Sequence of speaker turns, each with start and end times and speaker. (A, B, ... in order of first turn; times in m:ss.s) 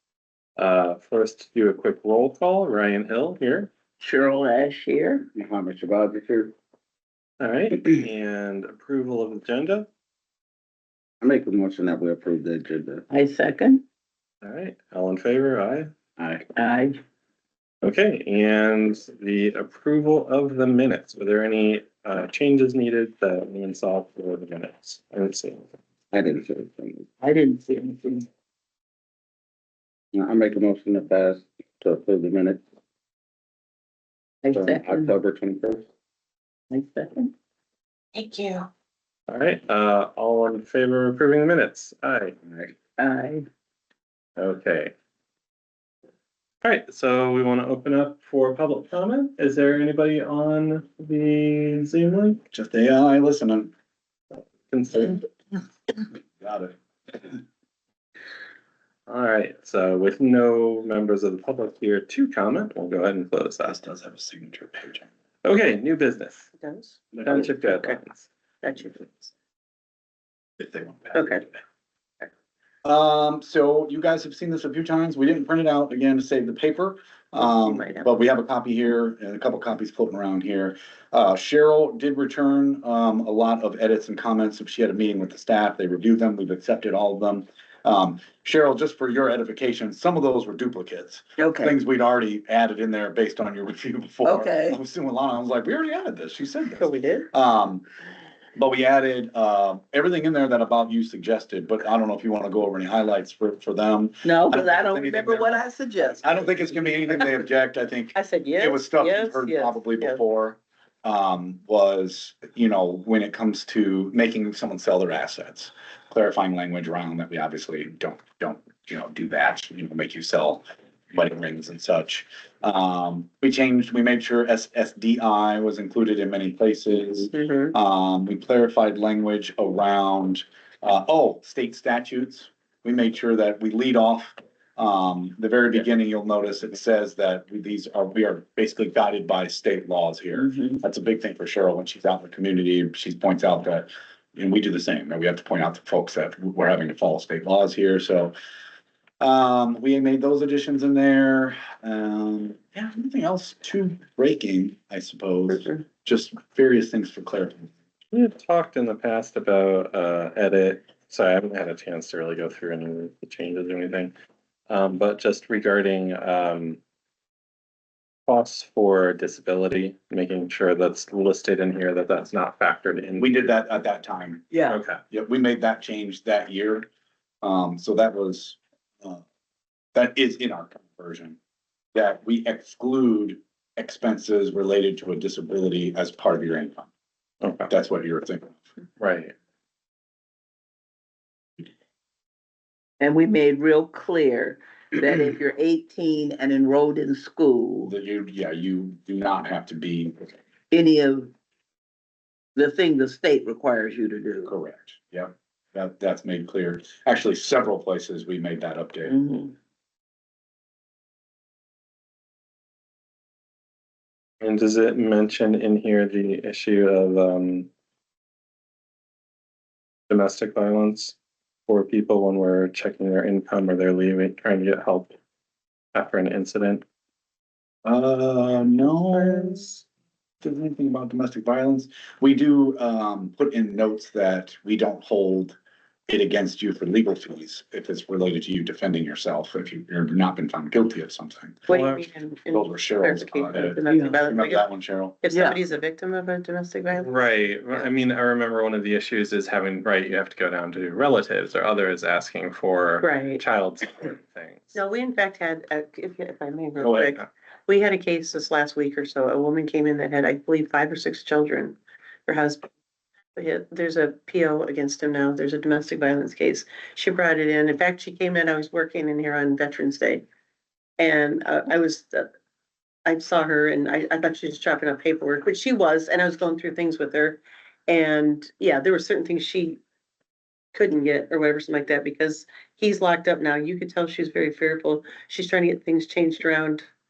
0:00.6-0:03.7 A
0:04.0-0:05.3 B
0:05.3-0:06.5 C
0:07.4-0:09.9 A
0:11.2-0:13.0 C
0:13.1-0:13.8 B
0:14.4-0:15.9 A
0:16.2-0:16.5 C
0:16.5-0:17.0 B
0:17.8-0:25.7 A
0:26.1-0:27.2 C
0:27.2-0:28.2 B
0:30.1-0:32.6 C
0:34.4-0:35.2 B
0:34.5-0:35.8 C
0:36.7-0:37.3 B
0:38.1-0:38.7 D
0:39.3-0:42.3 A
0:42.8-0:43.4 B
0:44.4-0:44.9 A
0:46.6-0:52.4 A
0:52.5-0:53.7 E
0:54.7-0:55.2 A
0:56.4-0:56.7 E
0:59.1-1:03.8 A
1:03.6-1:05.1 E
1:05.4-1:06.5 A
1:06.6-1:08.0 D
1:07.2-1:08.3 A
1:08.6-1:09.3 D
1:10.6-1:11.6 E
1:11.1-1:11.4 D
1:12.8-1:37.8 E
1:17.4-1:18.1 D
1:31.4-1:31.7 B
1:34.2-1:34.8 B
1:36.8-1:37.3 D
1:38.6-1:45.6 E
1:44.2-1:46.4 B
1:46.2-2:28.3 E
1:48.1-1:50.2 D
2:07.3-2:07.7 D
2:20.4-2:20.8 B
2:29.2-2:37.7 E
2:35.5-2:35.8 D
2:38.1-2:44.1 A
2:44.7-2:46.8 A
2:48.3-2:53.4 A
2:53.2-2:54.5 E
2:54.5-2:54.8 B
2:54.7-2:55.0 A
2:55.1-2:56.9 E
2:57.4-2:59.2 E
2:59.9-3:01.4 E
3:01.9-3:06.9 E
3:07.4-3:07.7 A
3:07.7-3:08.6 E
3:09.0-3:09.3 A
3:13.0-3:17.9 B
3:17.8-3:20.3 E
3:20.7-3:21.3 B
3:22.6-3:24.5 B
3:24.4-3:29.1 E
3:29.0-3:29.6 B
3:34.4-3:37.7 A
3:40.1-3:41.2 A
3:41.7-3:45.1 A
3:45.9-3:46.8 A
3:47.8-3:49.7 E
3:48.8-3:49.7 D
3:50.4-3:55.6 E
3:56.1-4:01.6 E
4:01.7-4:04.7 D
4:01.7-4:02.0 A
4:02.5-4:05.2 E
4:03.9-4:04.2 B
4:05.2-4:07.9 D
4:05.3-4:05.6 B
4:06.9-4:14.8 A
4:13.0-4:13.4 D
4:14.7-4:22.6 D
4:16.8-4:17.1 E
4:23.3-4:30.2 D
4:31.0-4:32.3 D
4:33.0-4:39.8 D
4:40.7-4:46.8 D